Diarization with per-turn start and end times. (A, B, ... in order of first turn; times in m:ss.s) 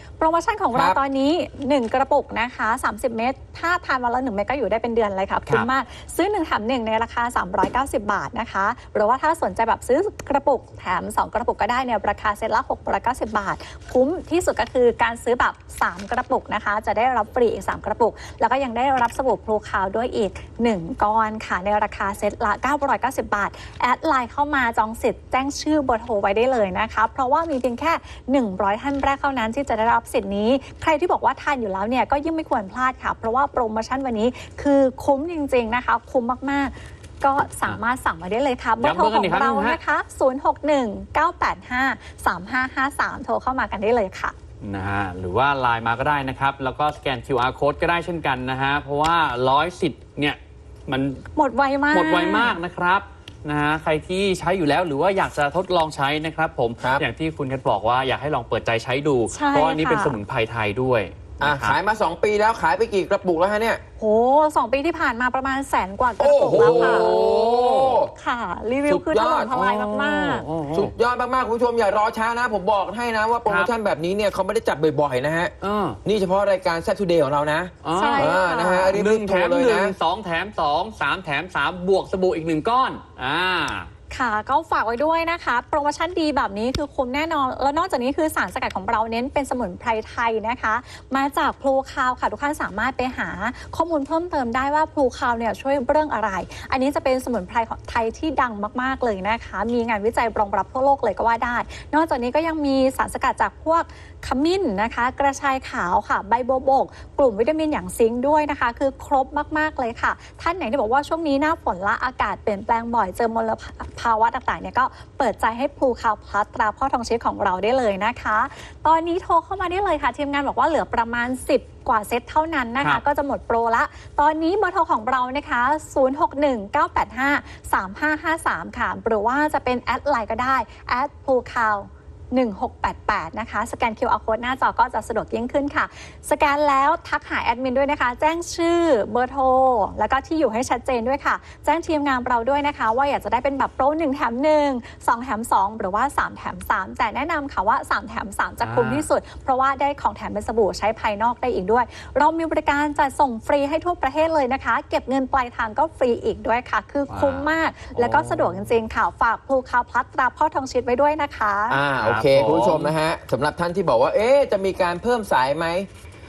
0:00.2-0:44.3 A
0:00.7-0:01.0 B
0:38.8-0:39.8 C
0:44.6-0:51.2 C
0:51.3-0:52.6 A
0:51.9-1:01.8 C
0:59.3-1:00.2 A
1:01.4-1:03.8 B
1:04.0-1:07.1 A
1:06.2-1:08.1 B
1:06.5-1:08.0 C
1:08.1-1:10.4 A
1:08.8-1:09.5 B
1:09.5-1:10.9 C
1:10.7-1:15.5 B
1:13.4-1:13.7 C
1:15.6-1:16.0 C
1:16.0-1:19.9 B
1:17.8-1:18.4 C
1:17.9-1:19.0 A
1:18.9-1:23.9 C
1:24.1-2:41.8 A
2:28.6-2:29.0 C
2:37.1-2:38.7 C
2:41.7-2:45.9 B
2:42.0-2:42.9 C